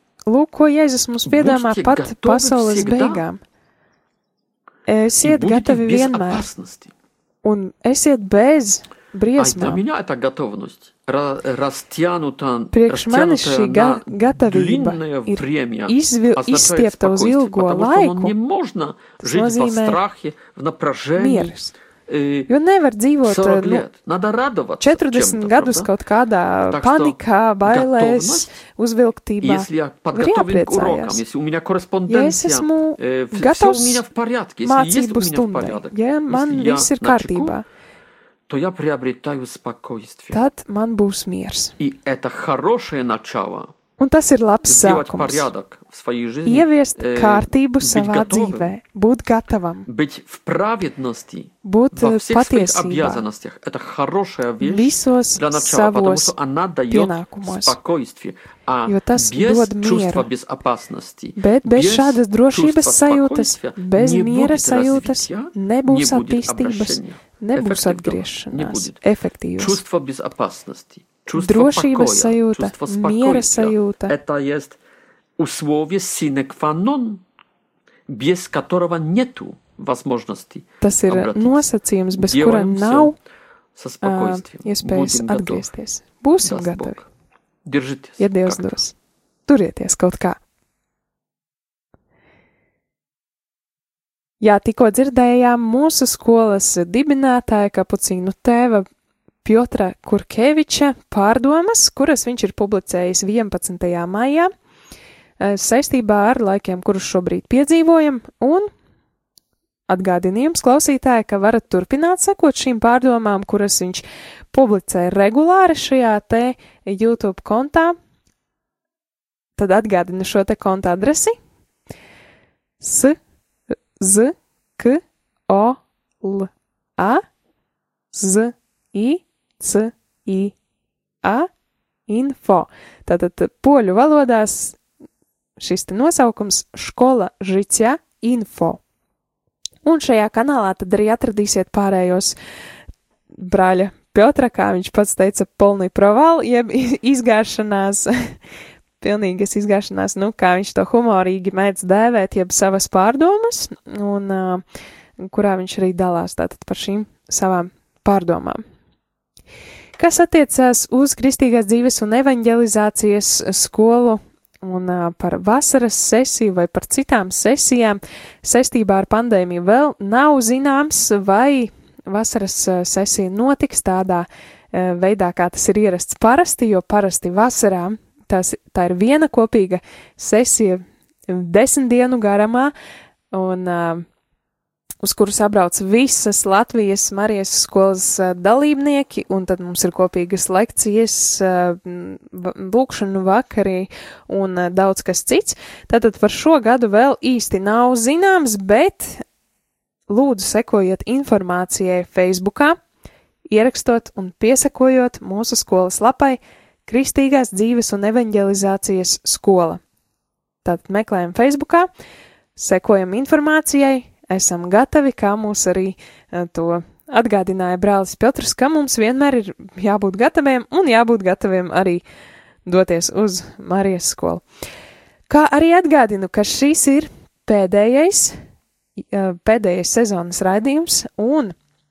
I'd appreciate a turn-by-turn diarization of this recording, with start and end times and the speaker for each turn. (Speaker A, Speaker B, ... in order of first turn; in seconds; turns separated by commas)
Speaker A: 0.3-3.4, Speaker B: 1.2-3.2, Speaker A: 4.9-6.5, Speaker B: 5.2-6.9, Speaker A: 7.4-9.8, Speaker B: 9.4-21.5, Speaker A: 12.7-18.3, Speaker A: 19.2-20.0, Speaker A: 21.2-21.7, Speaker B: 22.1-22.5, Speaker A: 22.5-23.9, Speaker B: 23.2-25.9, Speaker A: 24.8-31.2, Speaker B: 26.7-28.5, Speaker B: 29.4-37.5, Speaker A: 32.1-34.0, Speaker A: 34.6-37.6, Speaker B: 38.5-40.4, Speaker A: 40.3-41.7, Speaker B: 41.8-43.7, Speaker A: 44.0-45.5, Speaker B: 44.6-48.7, Speaker A: 46.5-49.9, Speaker B: 49.9-69.0, Speaker A: 51.6-53.2, Speaker A: 54.6-56.3, Speaker A: 56.9-57.8, Speaker A: 58.9-60.3, Speaker A: 61.4-69.8, Speaker B: 69.6-74.8, Speaker A: 71.3-74.1, Speaker B: 75.4-77.2, Speaker B: 78.1-81.6, Speaker A: 80.8-83.2, Speaker B: 82.2-83.1, Speaker B: 83.7-85.7, Speaker A: 84.0-87.0, Speaker B: 86.4-87.1, Speaker B: 87.6-88.8, Speaker A: 88.2-88.9, Speaker A: 89.5-90.4, Speaker A: 94.4-98.8, Speaker A: 99.4-104.5, Speaker A: 105.4-108.7, Speaker A: 109.9-118.0, Speaker A: 119.6-121.3, Speaker A: 122.8-123.2, Speaker A: 124.0-127.2, Speaker A: 128.1-130.5, Speaker A: 131.2-131.5, Speaker A: 132.1-134.8, Speaker A: 135.6-138.8, Speaker A: 139.8-142.3, Speaker A: 143.3-148.3, Speaker A: 149.0-154.6, Speaker A: 155.2-158.6, Speaker A: 160.0-182.7, Speaker A: 183.3-184.0, Speaker A: 185.0-199.2, Speaker A: 200.1-202.8, Speaker A: 203.5-209.8, Speaker A: 210.6-211.9, Speaker A: 212.6-222.0, Speaker A: 222.7-224.4, Speaker A: 225.3-228.3, Speaker A: 229.1-231.5